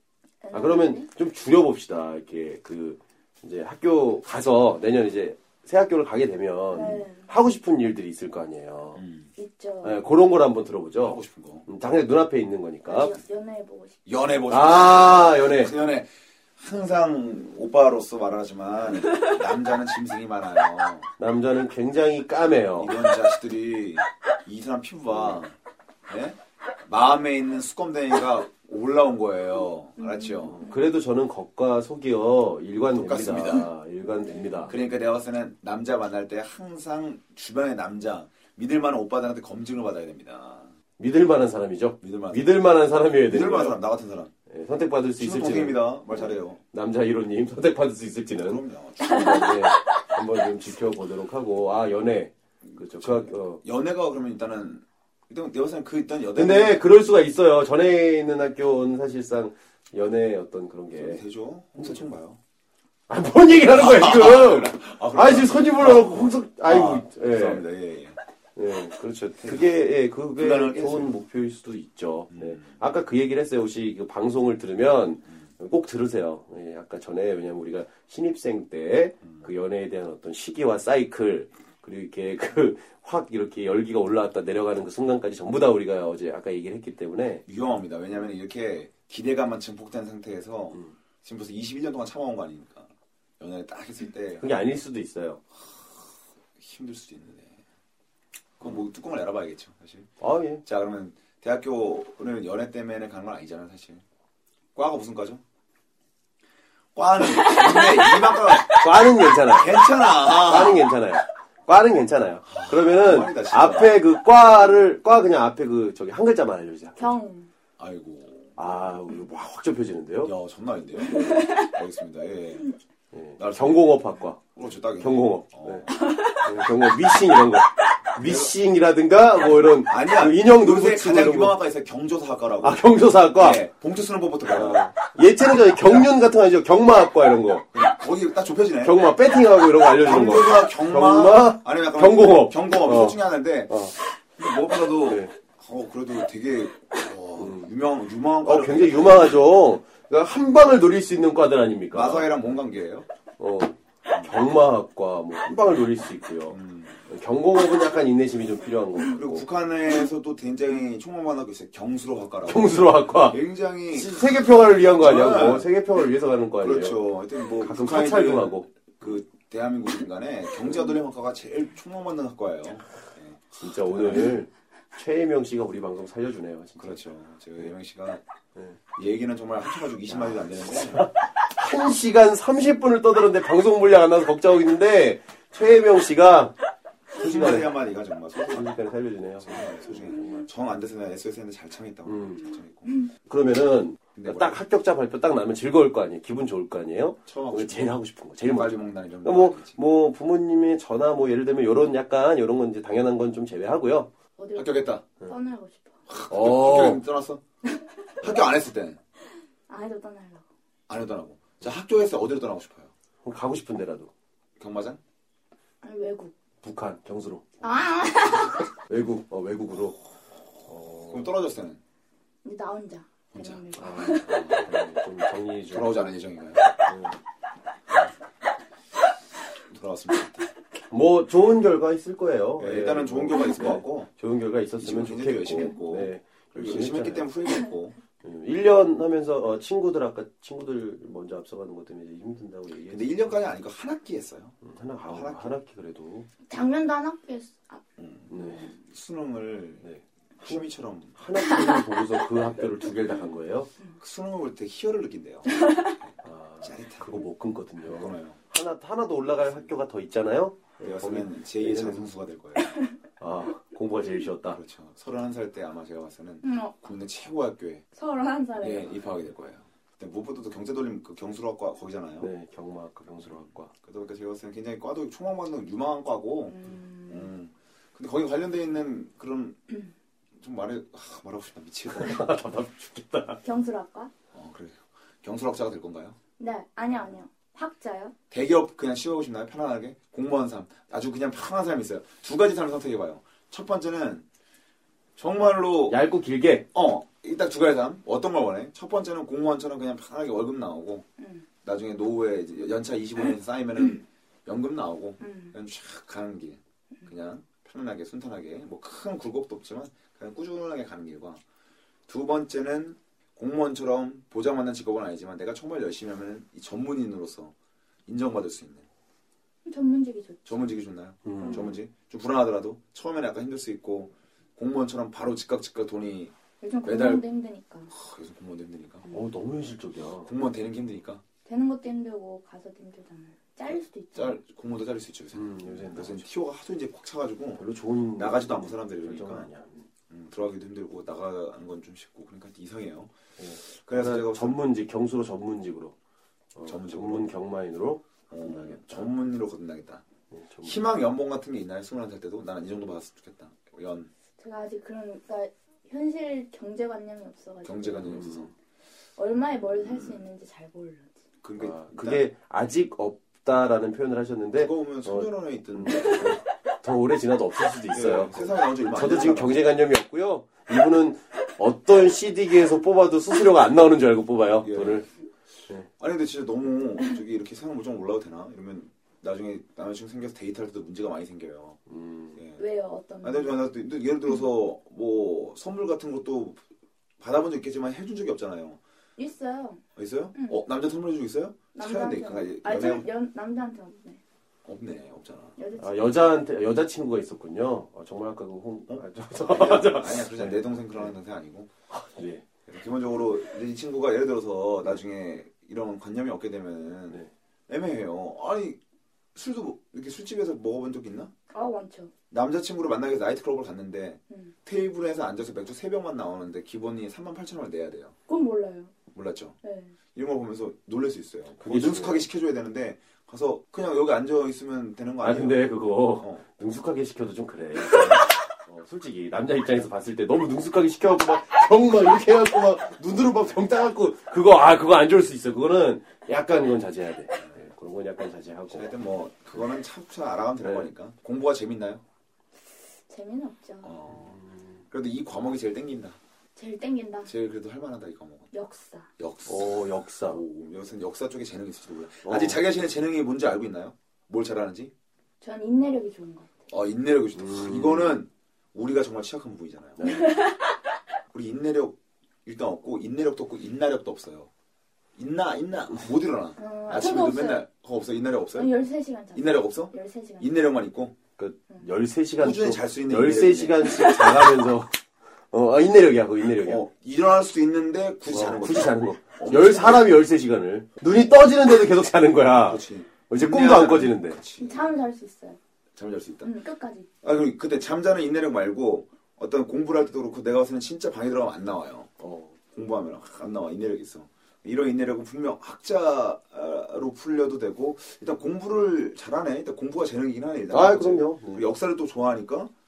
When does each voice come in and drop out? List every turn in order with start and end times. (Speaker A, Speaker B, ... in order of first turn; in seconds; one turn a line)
Speaker A: 0.4-1.1
Speaker B: 0.5-9.0
Speaker A: 6.7-7.3
Speaker C: 8.9-9.3
Speaker A: 9.4-10.0
Speaker B: 9.8-13.1
Speaker C: 11.0-11.7
Speaker A: 12.9-14.0
Speaker C: 14.1-21.1
Speaker B: 14.5-15.7
Speaker B: 21.2-22.9
Speaker C: 22.7-25.5
Speaker C: 26.1-30.6
Speaker A: 30.0-30.8
Speaker B: 30.5-34.8
Speaker C: 32.9-33.7
Speaker A: 34.2-34.7
Speaker C: 34.7-40.7
Speaker B: 41.0-43.8
Speaker C: 42.0-42.5
Speaker C: 43.3-44.3
Speaker B: 44.5-53.6
Speaker C: 45.2-46.6
Speaker C: 48.4-49.7
Speaker A: 49.2-49.8
Speaker C: 52.6-56.8
Speaker B: 56.4-61.2
Speaker C: 60.9-62.4
Speaker B: 63.1-67.6
Speaker C: 63.6-68.2
Speaker B: 68.5-87.4
Speaker C: 69.4-69.7
Speaker C: 70.3-71.2
Speaker C: 72.3-72.8
Speaker C: 79.2-79.5
Speaker C: 87.5-94.5
Speaker B: 94.4-95.4
Speaker C: 95.6-97.6
Speaker C: 98.6-100.1
Speaker B: 100.2-100.6
Speaker C: 100.6-104.0
Speaker C: 104.7-105.4
Speaker C: 106.9-108.9
Speaker A: 107.4-108.3
Speaker B: 108.7-117.2
Speaker C: 109.5-110.9
Speaker C: 112.5-114.0
Speaker A: 117.0-117.5
Speaker C: 117.8-118.8
Speaker B: 118.5-120.3
Speaker C: 120.2-122.7
Speaker A: 121.0-121.8
Speaker B: 123.1-124.4
Speaker C: 123.4-126.1
Speaker B: 125.0-131.6
Speaker C: 128.2-128.5
Speaker C: 129.3-132.8
Speaker B: 132.6-133.6
Speaker C: 133.3-134.8
Speaker B: 134.4-137.7
Speaker C: 137.7-139.1
Speaker B: 138.8-143.9
Speaker C: 140.0-149.5
Speaker B: 145.1-145.3
Speaker B: 147.4-147.7
Speaker B: 148.4-152.3
Speaker C: 151.9-153.1
Speaker B: 153.4-159.4
Speaker C: 156.5-157.0
Speaker C: 159.1-165.7
Speaker B: 162.4-163.4
Speaker B: 163.9-167.0
Speaker C: 166.6-174.4
Speaker B: 167.6-169.1
Speaker B: 173.5-177.0
Speaker C: 176.8-178.2
Speaker C: 178.9-181.1
Speaker B: 180.1-186.6
Speaker B: 187.1-187.7
Speaker C: 187.1-188.8
Speaker B: 188.5-190.4
Speaker C: 189.4-192.9
Speaker B: 192.0-192.4
Speaker B: 193.2-204.1
Speaker C: 194.1-194.6
Speaker C: 197.2-199.8
Speaker A: 204.4-206.0
Speaker C: 204.5-205.0
Speaker C: 206.1-207.4
Speaker B: 206.3-207.0
Speaker C: 208.2-209.0
Speaker A: 209.7-210.4
Speaker C: 210.9-212.9
Speaker B: 213.2-214.1
Speaker C: 214.6-215.0
Speaker A: 215.8-216.3
Speaker B: 216.6-217.6
Speaker A: 217.6-218.7
Speaker B: 218.9-220.0
Speaker B: 220.7-221.3
Speaker C: 221.1-221.8
Speaker A: 222.4-224.6
Speaker C: 223.3-223.6
Speaker B: 223.8-226.0
Speaker C: 224.2-224.8
Speaker C: 225.7-226.7
Speaker B: 226.8-227.2
Speaker C: 229.7-230.5
Speaker B: 230.9-237.3
Speaker C: 232.6-234.1
Speaker C: 234.8-238.0
Speaker B: 238.2-243.4
Speaker C: 242.9-245.6
Speaker B: 244.6-246.3
Speaker A: 246.4-247.8
Speaker C: 248.0-249.9
Speaker B: 248.3-248.7
Speaker B: 249.8-250.6
Speaker C: 250.4-251.2
Speaker B: 251.1-253.7
Speaker C: 252.4-252.7
Speaker C: 254.0-257.3
Speaker A: 255.5-255.9
Speaker B: 256.2-262.1
Speaker C: 257.8-258.4
Speaker C: 259.3-259.7
Speaker C: 260.8-262.8
Speaker A: 262.6-263.0
Speaker B: 263.2-264.6
Speaker C: 264.5-267.8
Speaker A: 266.4-266.8
Speaker A: 267.9-269.0
Speaker C: 268.6-272.3
Speaker B: 272.2-273.7
Speaker C: 273.7-279.6
Speaker A: 276.5-277.3
Speaker C: 280.4-282.3
Speaker B: 281.9-283.4
Speaker A: 283.4-284.1
Speaker C: 284.3-286.2
Speaker A: 286.4-288.1
Speaker C: 288.3-294.2
Speaker C: 295.2-296.0
Speaker B: 295.9-296.7
Speaker C: 296.7-301.0
Speaker A: 301.2-301.5
Speaker C: 301.6-311.4
Speaker A: 305.2-305.5
Speaker C: 312.1-317.5
Speaker C: 318.1-318.9
Speaker A: 319.6-320.6
Speaker C: 320.4-327.2
Speaker B: 321.2-321.8
Speaker A: 321.4-321.7
Speaker A: 326.6-327.9
Speaker C: 327.9-329.1
Speaker B: 329.1-330.3
Speaker C: 330.2-331.2
Speaker A: 331.4-334.4
Speaker C: 333.7-337.6
Speaker B: 335.3-336.3
Speaker B: 337.6-339.9
Speaker C: 338.2-339.5
Speaker C: 340.1-344.6
Speaker B: 343.4-345.9
Speaker B: 346.5-349.1
Speaker C: 346.6-347.4
Speaker C: 348.3-350.0
Speaker B: 350.3-350.8
Speaker C: 350.6-354.1
Speaker A: 354.4-358.2
Speaker C: 357.6-358.5
Speaker B: 358.0-358.5
Speaker A: 359.2-361.2
Speaker C: 359.7-360.2
Speaker C: 361.4-362.3
Speaker B: 361.6-375.1
Speaker C: 364.6-366.4
Speaker C: 367.9-369.7
Speaker C: 374.6-375.1
Speaker C: 375.9-381.8
Speaker B: 381.9-382.4
Speaker C: 382.3-382.6
Speaker A: 382.6-383.6
Speaker C: 383.2-386.6
Speaker C: 387.2-388.8
Speaker A: 389.2-389.8
Speaker C: 389.9-393.1
Speaker A: 390.3-390.6
Speaker A: 391.7-394.2
Speaker C: 394.6-395.6
Speaker A: 395.6-396.2
Speaker B: 395.8-401.1
Speaker C: 398.9-401.7
Speaker B: 401.9-402.4
Speaker C: 402.7-408.8
Speaker C: 409.3-411.3
Speaker A: 411.5-412.1
Speaker C: 412.3-418.1
Speaker A: 414.3-414.5
Speaker A: 418.3-418.9
Speaker C: 419.1-419.6
Speaker A: 419.6-419.9
Speaker C: 420.1-426.4
Speaker B: 421.6-422.3
Speaker B: 425.2-438.9
Speaker C: 427.9-428.2
Speaker C: 438.7-442.0
Speaker B: 440.6-440.9
Speaker A: 443.1-444.0
Speaker C: 443.8-446.2
Speaker B: 444.1-444.8
Speaker A: 446.6-447.3
Speaker C: 447.2-448.5
Speaker A: 448.5-449.1
Speaker C: 449.2-454.9
Speaker B: 449.5-450.4
Speaker B: 452.2-452.6
Speaker A: 455.4-456.6
Speaker C: 456.7-460.1
Speaker B: 457.4-458.1
Speaker B: 460.0-460.3
Speaker A: 460.0-460.8
Speaker C: 461.3-464.5
Speaker C: 465.1-471.1
Speaker A: 466.6-467.6
Speaker A: 468.5-470.5
Speaker B: 471.4-475.0
Speaker C: 472.4-474.3
Speaker B: 475.5-476.9
Speaker C: 476.6-480.1
Speaker B: 478.3-484.4
Speaker C: 482.5-485.0
Speaker A: 484.6-485.6
Speaker C: 485.9-486.6
Speaker A: 486.4-487.1
Speaker C: 487.2-492.1
Speaker B: 492.2-492.6
Speaker C: 492.7-502.7
Speaker B: 500.7-501.6